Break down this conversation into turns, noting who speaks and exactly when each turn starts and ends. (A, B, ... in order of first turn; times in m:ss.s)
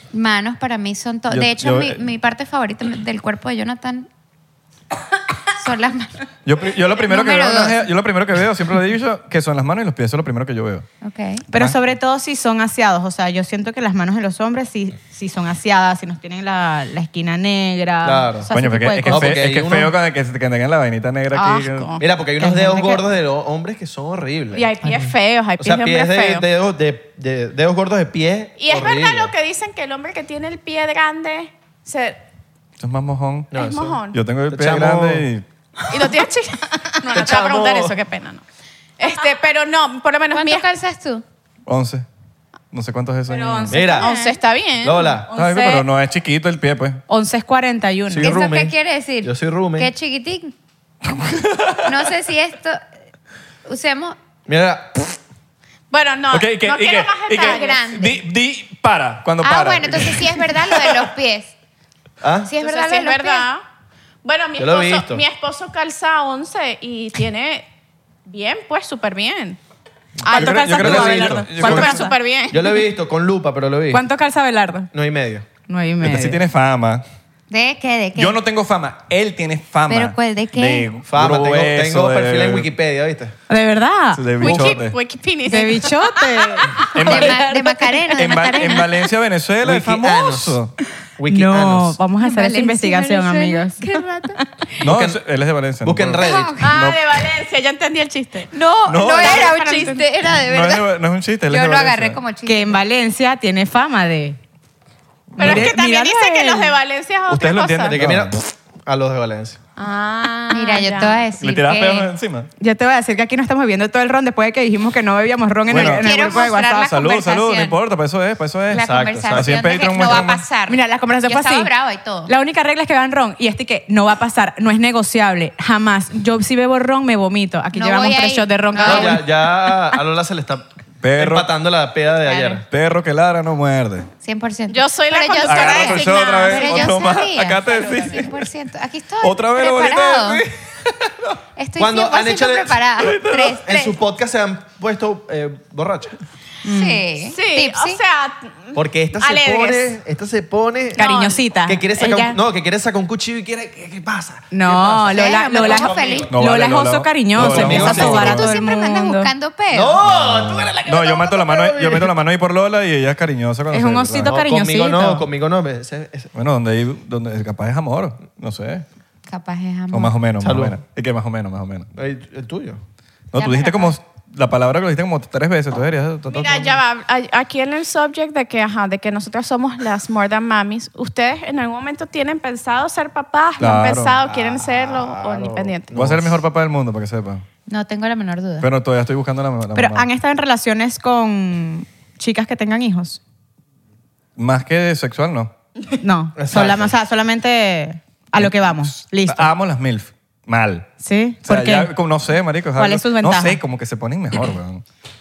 0:00.1-0:04.1 A
0:01.3-0:02.0 B
0:05.5-0:06.2 A
0:06.4-0:10.8 B
0:07.0-0:07.8 A
0:11.0-0:11.4 A
0:11.5-0:19.4 C
0:18.0-0:18.5 D
0:18.5-0:22.0 B
0:19.1-0:20.0 D
0:21.3-0:22.0 E
0:22.0-0:24.7 D
0:22.4-0:23.0 C
0:24.5-0:26.4 E
0:25.6-0:29.3 D
0:28.6-0:32.2 E
0:32.8-0:33.5 B
0:33.5-0:35.2 D
0:33.5-0:34.2 E
0:34.1-0:35.4 B
0:35.9-0:38.4 E
0:37.1-0:37.9 D
0:39.0-0:40.7 E
0:40.3-0:41.2 A
0:41.7-0:42.0 B
0:42.7-0:43.8 B
0:43.3-0:44.4 C
0:43.7-0:44.1 D
0:43.9-0:45.8 E
0:44.8-0:45.3 D
0:45.3-0:47.0 B
0:47.1-0:48.4 C
0:48.1-0:49.9 D
0:48.2-0:50.5 A
0:51.0-0:51.9 B
0:51.8-0:52.8 A
0:53.6-0:54.2 A
0:54.5-0:55.2 D
0:55.9-0:57.8 E
0:56.3-1:01.0 B
0:57.4-0:58.2 A
0:59.4-1:01.5 A
1:02.2-1:02.5 D
1:02.4-1:03.5 A
1:02.6-1:03.6 E
1:04.2-1:07.6 E
1:04.6-1:05.2 D
1:08.2-1:09.6 E
1:10.2-1:11.9 D
1:10.2-1:10.6 E
1:10.2-1:12.1 C
1:10.4-1:12.0 B
1:11.5-1:12.8 E
1:12.5-1:14.0 D
1:13.9-1:14.9 C
1:14.9-1:15.4 D
1:15.7-1:16.4 C
1:16.0-1:17.0 B
1:17.5-1:18.4 A
1:18.1-1:22.7 B
1:19.9-1:20.9 A
1:21.1-1:23.3 D
1:23.5-1:24.7 C
1:24.1-1:25.0 B
1:24.4-1:27.2 E
1:25.4-1:27.5 C
1:26.9-1:27.4 B
1:27.0-1:29.0 A
1:28.1-1:30.7 B
1:29.6-1:30.6 D
1:31.2-1:32.0 D
1:31.3-1:34.0 C
1:32.2-1:34.4 A
1:34.8-1:37.0 B
1:34.8-1:35.2 D
1:35.8-1:36.6 D
1:36.2-1:36.7 A
1:36.6-1:38.5 E
1:38.5-1:40.9 A
1:38.9-1:39.5 B
1:39.1-1:40.0 E
1:40.3-1:42.2 B
1:41.5-1:42.8 A
1:42.4-1:44.4 C
1:45.3-1:45.7 B
1:45.4-1:46.7 C
1:45.4-1:48.0 E
1:47.3-1:48.4 B
1:47.9-1:49.6 D
1:49.8-1:51.2 E
1:50.5-1:52.1 A
1:51.4-1:52.5 B
1:52.6-1:56.8 C
1:55.7-2:00.4 B
1:55.7-1:57.8 A
1:58.7-2:02.3 A
1:58.8-2:00.3 D
2:00.7-2:01.7 C
2:02.2-2:09.2 C
2:07.7-2:09.2 A
2:08.8-2:12.6 D
2:11.0-2:11.5 B
2:12.2-2:12.6 A
2:12.7-2:14.1 B
2:14.2-2:20.4 A
2:14.7-2:17.0 E
2:15.4-2:18.4 B
2:19.2-2:21.4 B
2:21.6-2:24.0 A
2:21.8-2:22.9 D
2:23.0-2:23.6 B
2:23.4-2:26.2 D
2:26.6-2:27.0 C
2:26.6-2:28.0 A
2:27.3-2:30.0 E
2:28.7-2:31.0 D
2:31.0-2:31.4 E
2:31.0-2:32.4 C
2:31.6-2:36.3 D
2:34.5-2:39.3 C
2:35.1-2:36.3 A
2:36.3-2:38.4 B
2:37.3-2:38.4 D
2:37.7-2:40.0 A
2:39.7-2:42.1 D
2:40.0-2:44.3 B
2:43.7-2:45.2 C
2:44.2-2:46.3 D
2:46.3-2:48.8 B
2:49.3-2:50.1 A
2:49.9-2:51.9 B
2:50.4-2:50.8 D
2:51.9-2:52.8 D
2:53.3-2:56.8 B
2:53.3-2:53.9 A
2:56.3-3:05.9 E
3:03.6-3:04.2 B
3:04.2-3:06.4 D
3:05.9-3:07.4 B
3:07.7-3:08.7 A
3:08.6-3:10.1 B
3:09.7-3:13.2 C
3:14.4-3:15.5 B
3:16.0-3:19.5 C
3:16.4-3:16.9 D
3:18.4-3:20.9 B
3:21.0-3:21.9 C
3:21.4-3:24.8 B
3:22.8-3:23.6 C